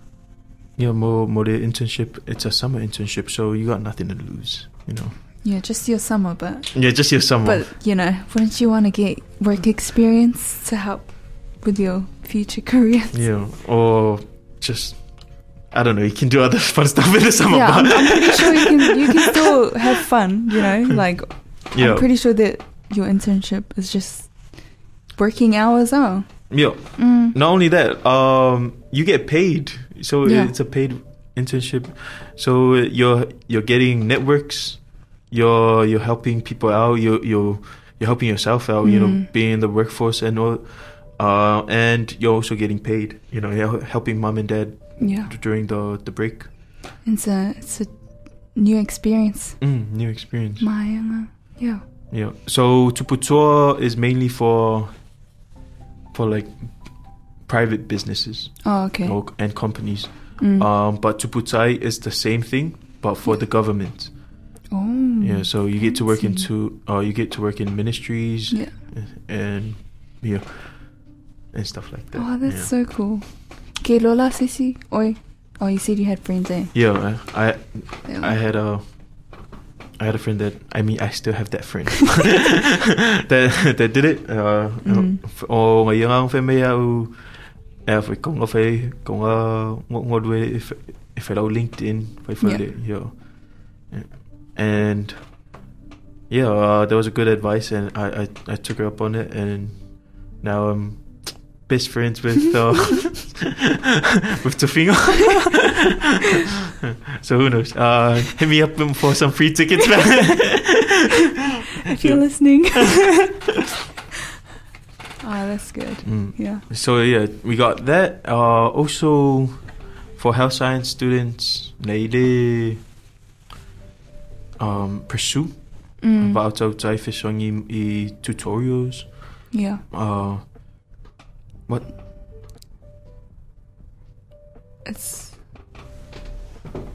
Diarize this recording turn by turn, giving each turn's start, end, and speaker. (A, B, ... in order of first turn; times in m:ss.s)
0:00.8-0:05.2 A
0:05.4-0:13.2 B
0:06.7-0:07.7 A
0:13.1-0:19.5 A
0:17.5-0:27.4 B
0:21.7-0:22.1 A
0:26.5-0:46.5 A
0:30.2-0:30.5 B
0:38.8-0:39.3 B
0:45.0-0:45.3 B
0:47.0-0:47.9 B
0:48.5-0:49.6 B
0:49.6-0:50.7 A
0:50.6-0:51.8 B
0:52.1-0:55.0 A
0:56.1-0:56.9 A
0:57.4-1:04.2 A
0:58.6-0:59.2 B
1:00.4-1:00.7 B
1:04.7-1:06.5 B
1:05.2-1:12.7 A
1:12.2-1:16.7 B
1:16.7-1:18.8 A
1:18.1-1:18.4 B
1:20.0-1:35.2 A
1:24.8-1:25.2 B
1:36.3-1:43.7 A
1:44.2-1:45.9 A
1:46.8-1:51.1 A
1:51.8-1:53.3 B
1:51.9-1:52.3 A
1:52.8-1:53.0 A
1:55.2-1:56.6 B
1:56.0-2:02.8 A
2:04.6-2:10.4 A
2:06.0-2:06.4 B
2:09.5-2:09.8 B
2:14.8-2:15.4 B